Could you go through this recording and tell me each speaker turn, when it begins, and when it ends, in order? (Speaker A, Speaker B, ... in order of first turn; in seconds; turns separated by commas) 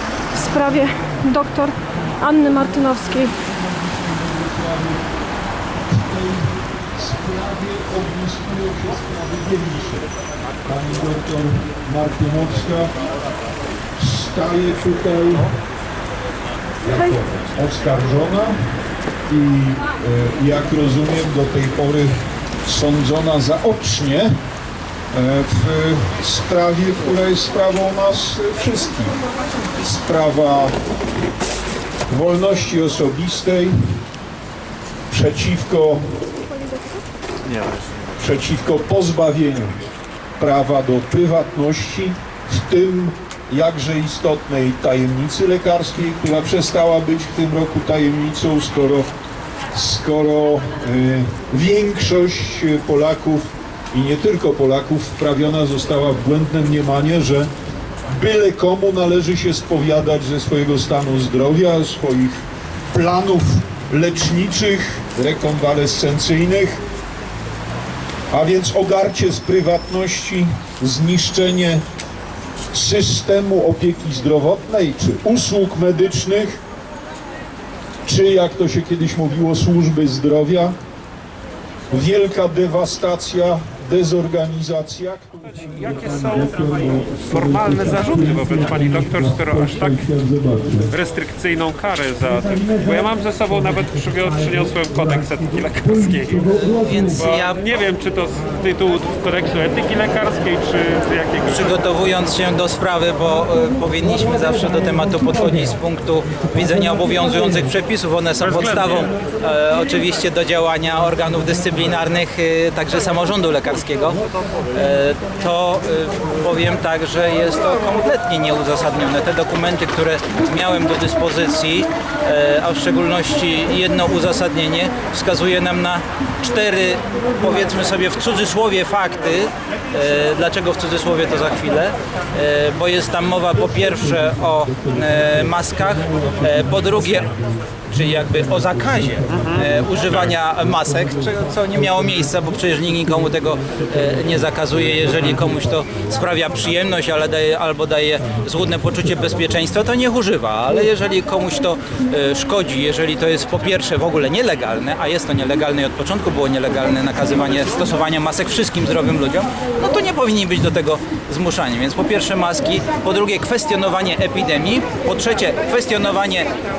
Speaker A: 0.3-3.3, Speaker B: 3.5-5.0, Speaker B: 5.8-10.1, Speaker B: 10.6-12.9, Speaker B: 14.0-15.5, Speaker B: 16.8-18.5, Speaker B: 19.3-22.1, Speaker B: 22.6-24.3, Speaker B: 25.1-29.2, Speaker B: 29.8-30.7, Speaker B: 32.1-33.8, Speaker B: 35.1-36.2, Speaker A: 36.5-37.0, Speaker B: 38.2-39.8, Speaker B: 40.4-49.1, Speaker B: 49.7-57.5, Speaker B: 58.1-66.8, Speaker B: 68.3-71.8, Speaker B: 72.7-76.6, Speaker B: 78.0-80.8, Speaker B: 81.9-90.9, Speaker C: 85.8-86.5, Speaker C: 87.1-90.1, Speaker C: 90.9-96.4, Speaker B: 96.1-97.0, Speaker D: 96.4-97.6, Speaker C: 97.1-101.6, Speaker D: 101.5-114.2, Speaker C: 108.4-109.1, Speaker D: 114.7-137.4, Speaker D: 137.9-166.5, Speaker C: 139.3-139.6